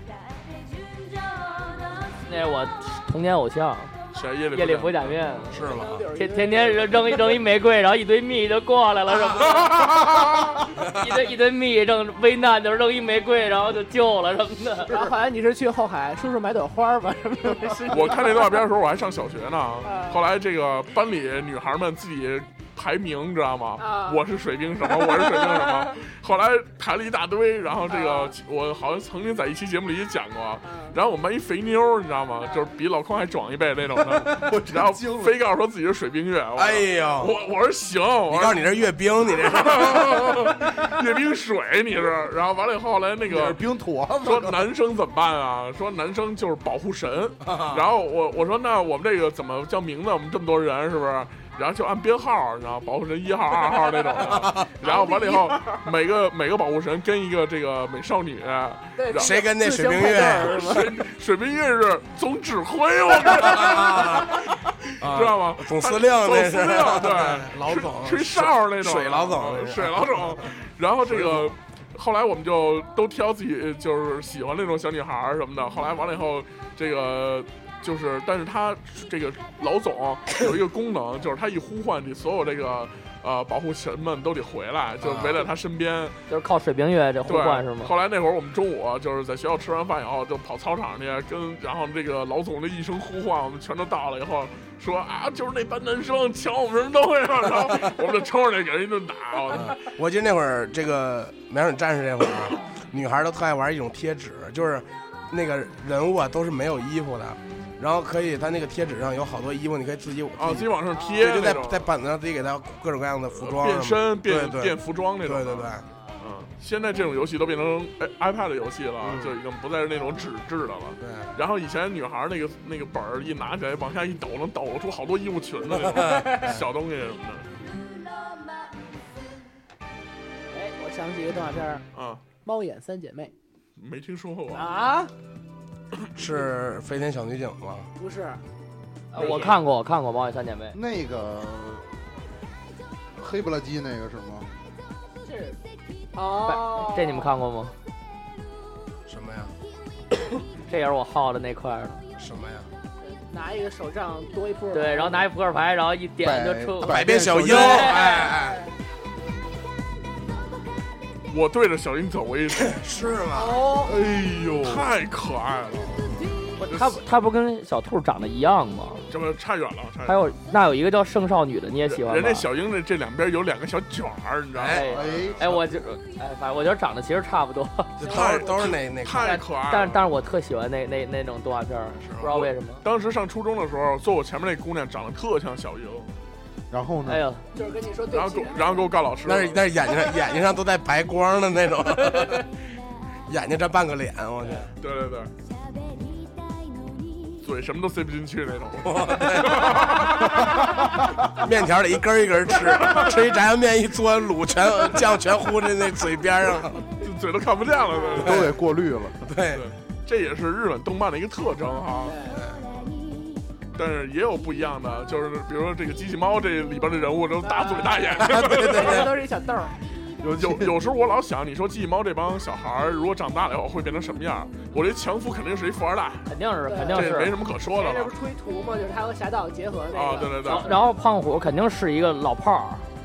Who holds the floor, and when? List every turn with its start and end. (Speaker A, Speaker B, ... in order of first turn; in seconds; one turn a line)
Speaker A: 2.2-3.9
Speaker B: 4.1-5.2
Speaker A: 4.5-5.6
Speaker C: 5.5-6.0
Speaker D: 5.5-7.3
Speaker A: 6.1-10.2
Speaker B: 9.6-10.6
Speaker C: 10.8-11.1
Speaker A: 10.8-15.0
Speaker D: 14.9-18.6
Speaker B: 17.9-38.7
Speaker D: 19.8-20.2
Speaker D: 23.8-24.2
Speaker D: 27.9-28.3
Speaker D: 30.6-30.9
Speaker E: 34.1-35.4
Speaker C: 36.5-37.3
Speaker C: 38.3-40.5
Speaker B: 39.2-43.6
Speaker E: 43.3-44.6
Speaker B: 44.2-59.4
Speaker C: 47.4-47.9
Speaker C: 54.2-54.7
Speaker D: 54.8-55.8
Speaker D: 59.0-61.0
Speaker C: 59.1-60.7
Speaker B: 60.4-86.2
Speaker C: 63.3-70.4
Speaker C: 71.1-71.5
Speaker C: 85.0-85.5
Speaker A: 86.3-87.9
Speaker B: 87.3-99.8
Speaker C: 99.5-115.8
Speaker B: 110.3-111.9
Speaker D: 111.0-111.2
Speaker B: 113.3-127.5
Speaker C: 119.0-119.3
Speaker C: 121.0-121.3
Speaker C: 125.8-126.6
Speaker D: 130.5-131.8
Speaker B: 131.9-132.2
Speaker D: 132.4-133.3
Speaker B: 133.8-134.7
Speaker D: 134.5-135.1
Speaker C: 136.2-137.9
Speaker D: 138.0-138.4
Speaker D: 139.1-139.5
Speaker A: 139.1-140.8
Speaker E: 140.7-141.9
Speaker E: 143.2-144.5
Speaker D: 145.2-145.6
Speaker D: 146.1-147.3
Speaker A: 146.4-147.7
Speaker C: 149.1-149.5
Speaker A: 150.7-152.0
Speaker C: 152.2-152.7
Speaker D: 153.0-155.3
Speaker A: 154.7-157.9
Speaker E: 156.2-157.9
Speaker C: 156.8-158.6
Speaker D: 157.8-158.5
Speaker B: 161.3-162.8
Speaker C: 162.6-163.7
Speaker D: 163.3-164.0
Speaker E: 163.8-164.9
Speaker B: 164.6-166.1
Speaker A: 166.6-169.1
Speaker B: 166.7-167.0
Speaker B: 169.1-170.3
Speaker A: 170.0-172.5
Speaker B: 171.8-175.6
Speaker C: 174.5-175.3
Speaker A: 174.7-178.0
Speaker E: 174.8-175.4
Speaker C: 178.0-179.4
Speaker D: 178.0-178.7
Speaker B: 178.1-180.1
Speaker A: 179.2-182.8
Speaker C: 182.0-182.3
Speaker B: 182.2-186.1
Speaker E: 186.7-187.2
Speaker A: 187.1-187.4
Speaker D: 187.5-188.9
Speaker B: 188.1-189.6
Speaker C: 189.2-192.5
Speaker C: 193.3-194.7
Speaker B: 194.8-195.3
Speaker B: 197.4-200.8
Speaker C: 198.8-200.2
Speaker C: 201.3-206.9
Speaker B: 202.5-203.2
Speaker B: 207.0-208.5
Speaker E: 208.2-209.2
Speaker C: 208.2-208.5
Speaker C: 209.2-209.7
Speaker B: 209.5-212.2
Speaker D: 212.0-212.4
Speaker C: 212.3-212.7
Speaker B: 213.7-219.1
Speaker D: 217.4-219.8
Speaker C: 218.2-219.1
Speaker E: 220.2-220.7
Speaker B: 220.4-226.3
Speaker A: 226.2-227.3
Speaker D: 226.7-227.1
Speaker B: 226.9-228.1
Speaker D: 227.7-230.8
Speaker B: 229.9-230.7
Speaker A: 230.4-232.8